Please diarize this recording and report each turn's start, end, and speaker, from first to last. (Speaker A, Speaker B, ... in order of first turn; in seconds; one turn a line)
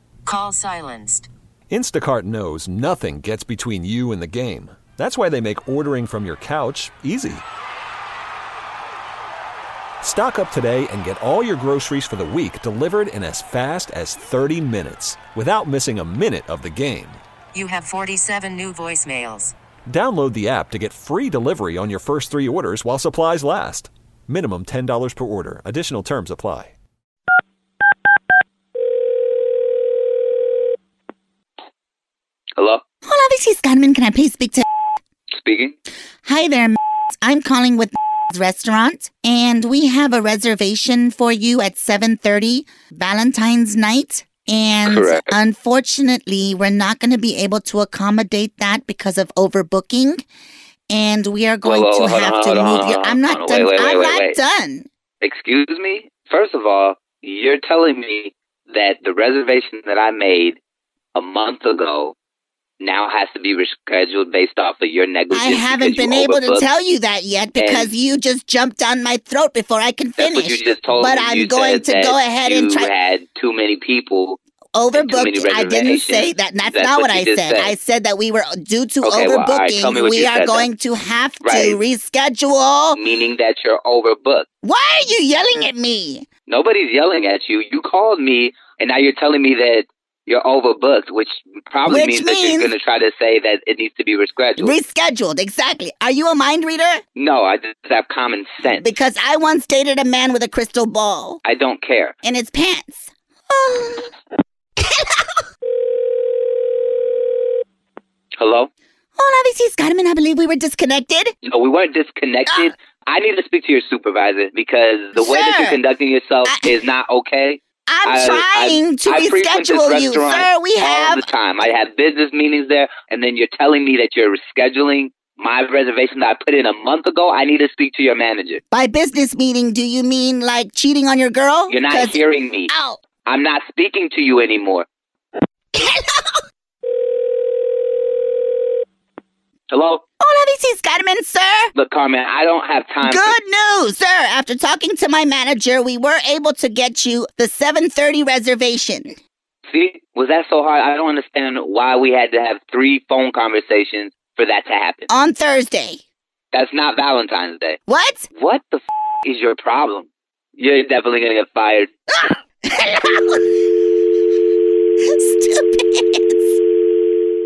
Speaker A: 0.2-1.3
Speaker B: 1.7-7.4
Speaker B: 10.0-17.2
Speaker A: 17.5-19.6
Speaker B: 19.9-26.8
Speaker C: 32.6-32.8
Speaker D: 33.1-34.6
Speaker C: 35.3-35.7
Speaker D: 36.2-50.2
Speaker C: 44.9-45.3
Speaker D: 50.9-54.9
Speaker C: 51.6-54.4
Speaker C: 55.2-60.6
Speaker C: 61.2-62.1
Speaker C: 62.8-66.7
Speaker D: 65.3-72.9
Speaker C: 67.6-67.9
Speaker C: 70.2-74.4
Speaker D: 74.8-83.0
Speaker C: 74.9-77.8
Speaker C: 79.0-80.7
Speaker C: 81.4-81.8
Speaker C: 83.0-84.5
Speaker D: 84.6-86.3
Speaker C: 86.5-94.8
Speaker D: 91.9-92.7
Speaker D: 94.6-97.0
Speaker C: 97.2-98.9
Speaker D: 98.8-101.4
Speaker C: 101.4-102.1
Speaker D: 102.2-104.1
Speaker D: 104.8-105.2
Speaker C: 108.4-108.7
Speaker D: 109.2-111.3
Speaker C: 111.4-128.6
Speaker D: 115.1-115.8
Speaker D: 116.5-116.8
Speaker D: 117.9-121.3
Speaker D: 128.7-133.0
Speaker C: 131.7-132.7
Speaker C: 133.2-134.9
Speaker D: 135.8-136.4
Speaker C: 139.7-140.0
Speaker D: 140.2-141.7
Speaker C: 141.8-143.3
Speaker D: 143.0-149.2
Speaker C: 149.7-155.1
Speaker D: 155.1-156.0
Speaker C: 156.5-157.8
Speaker D: 157.9-158.3
Speaker C: 158.3-161.9
Speaker D: 162.2-163.6
Speaker D: 165.1-166.6